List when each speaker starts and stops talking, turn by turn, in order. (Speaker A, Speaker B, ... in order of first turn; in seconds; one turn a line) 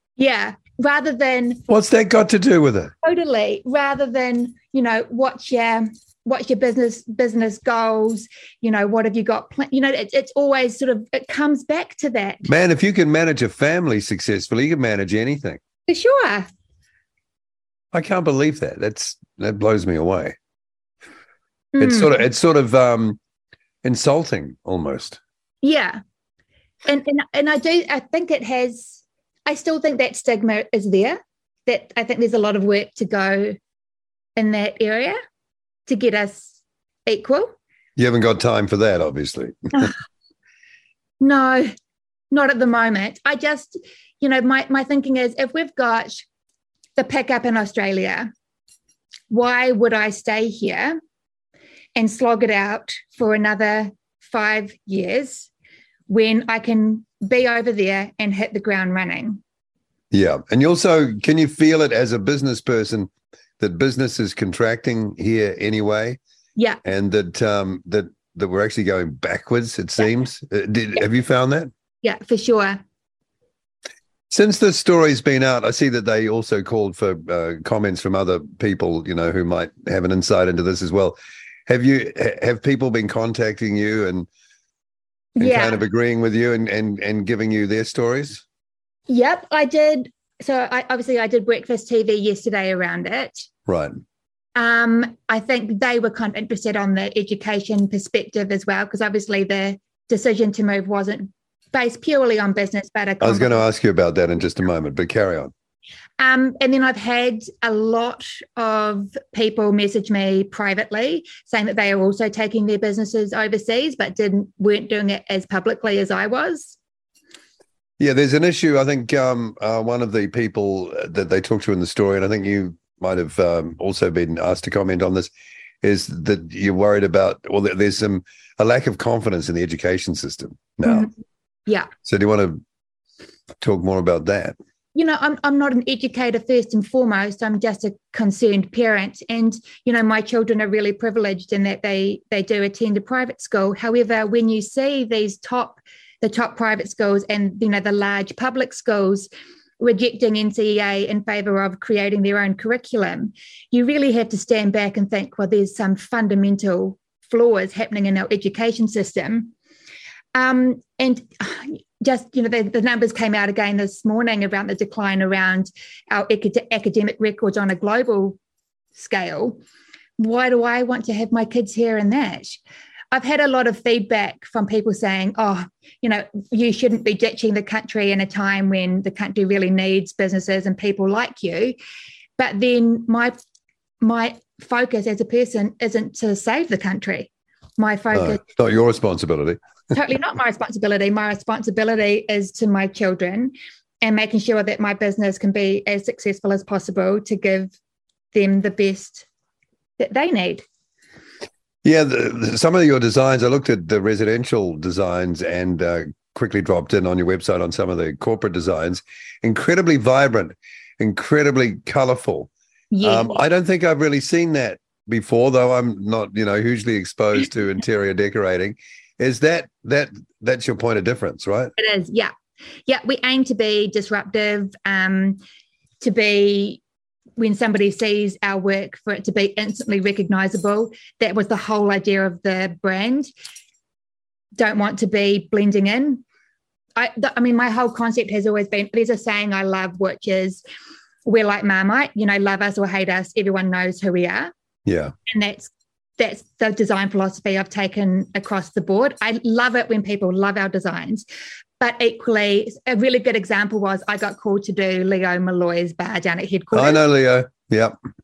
Speaker A: 0.2-1.6
Speaker B: 1.7-2.9
Speaker A: 3.0-12.4
Speaker B: 12.4-15.6
Speaker A: 15.9-16.5
Speaker B: 17.9-20.4
Speaker A: 21.7-22.1
Speaker B: 21.8-23.2
Speaker B: 23.8-25.2
Speaker A: 25.6-26.0
Speaker A: 26.9-33.5
Speaker A: 34.4-35.2
Speaker A: 35.9-36.5
Speaker A: 37.0-37.5
Speaker B: 38.0-39.9
Speaker A: 41.2-41.7
Speaker A: 42.3-46.2
Speaker A: 47.0-48.3
Speaker A: 49.3-51.0
Speaker A: 52.0-55.5
Speaker A: 56.1-59.4
Speaker B: 60.1-66.2
Speaker B: 66.8-71.7
Speaker A: 72.0-72.8
Speaker B: 74.3-84.3
Speaker A: 85.4-85.8
Speaker B: 85.4-88.4
Speaker A: 89.1-93.5
Speaker B: 93.7-93.9
Speaker A: 94.5-103.6
Speaker B: 103.2-105.5
Speaker A: 106.2-116.8
Speaker B: 118.0-125.3
Speaker B: 125.8-131.1
Speaker A: 130.8-131.1
Speaker B: 132.0-132.6
Speaker B: 133.6-134.6
Speaker A: 134.9-149.3
Speaker A: 149.8-159.5
Speaker A: 160.3-168.4
Speaker A: 168.9-169.6
Speaker A: 170.2-172.6
Speaker A: 173.1-181.7
Speaker A: 182.4-183.3
Speaker A: 184.0-188.4
Speaker B: 188.1-189.6
Speaker A: 189.9-197.7
Speaker A: 198.3-199.3
Speaker A: 200.0-200.6
Speaker B: 201.8-212.5
Speaker A: 212.9-213.4
Speaker B: 213.0-221.7
Speaker A: 221.8-222.3
Speaker A: 222.9-225.4
Speaker A: 226.0-226.8
Speaker A: 227.4-233.3
Speaker A: 234.6-236.2
Speaker A: 236.9-240.6
Speaker A: 241.2-244.5
Speaker B: 244.8-245.1
Speaker A: 245.3-251.2
Speaker A: 251.8-257.0
Speaker B: 256.7-257.9